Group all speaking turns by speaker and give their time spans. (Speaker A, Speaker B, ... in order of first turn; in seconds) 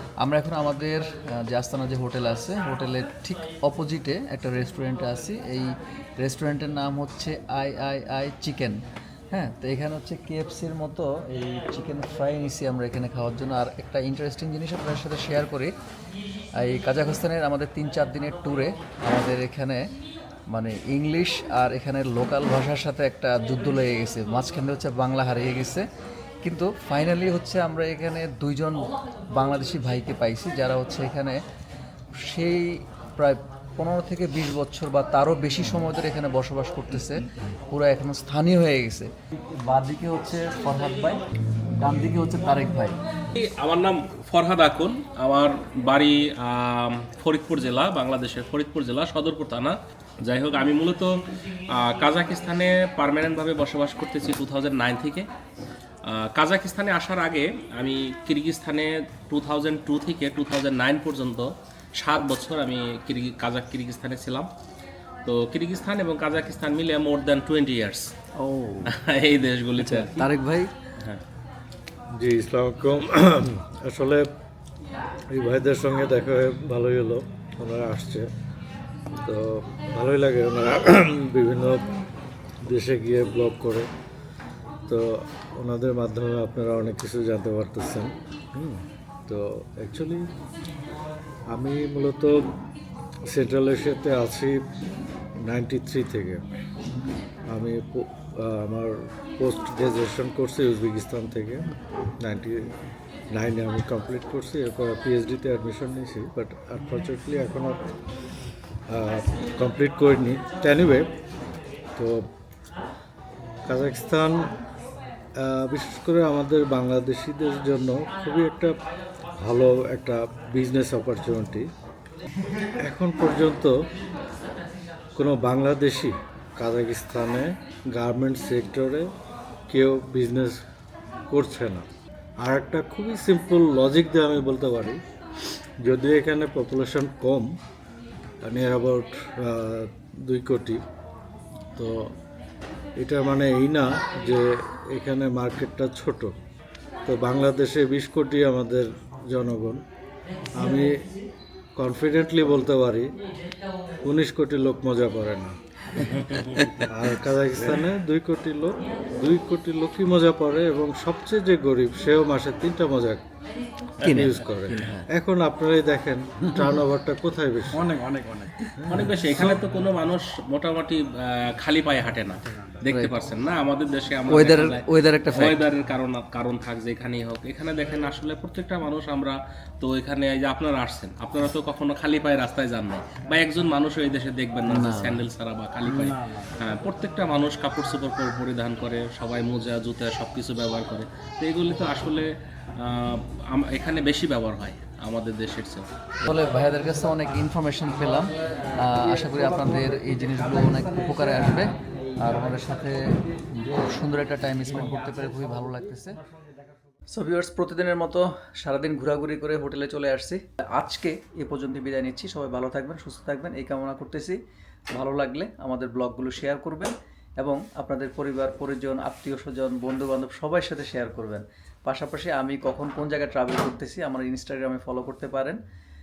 Speaker A: 0.2-15.7, 16.6-19.9, 20.5-25.9, 26.4-31.4, 32.2-41.2, 41.8-43.0, 68.4-69.0, 69.8-70.7, 156.2-156.8, 164.0-165.1, 172.9-173.2, 174.3-175.6, 184.7-185.2, 196.2-206.2, 207.1-214.4, 214.9-225.6
Speaker B: 43.4-55.3, 56.0-64.5, 65.2-68.1, 68.9-70.3, 167.9-195.9
Speaker C: 72.2-74.3, 75.3-78.3, 79.2-81.9, 82.6-83.9, 84.9-90.3, 91.5-92.4, 93.3-94.6, 95.4-96.5, 97.5-102.7, 103.3-107.8, 108.9-111.1, 112.0-112.2, 113.7-114.5, 115.4-118.7, 119.4-121.7, 122.8-123.7, 125.2-129.1, 129.7-130.6, 131.3-131.9, 132.4-135.0, 135.8-137.5, 138.4-140.8, 141.8-142.1, 143.0-146.3, 147.1-149.8, 150.5-150.9, 151.8-153.2, 154.0-155.5, 156.9-163.2, 164.0-167.9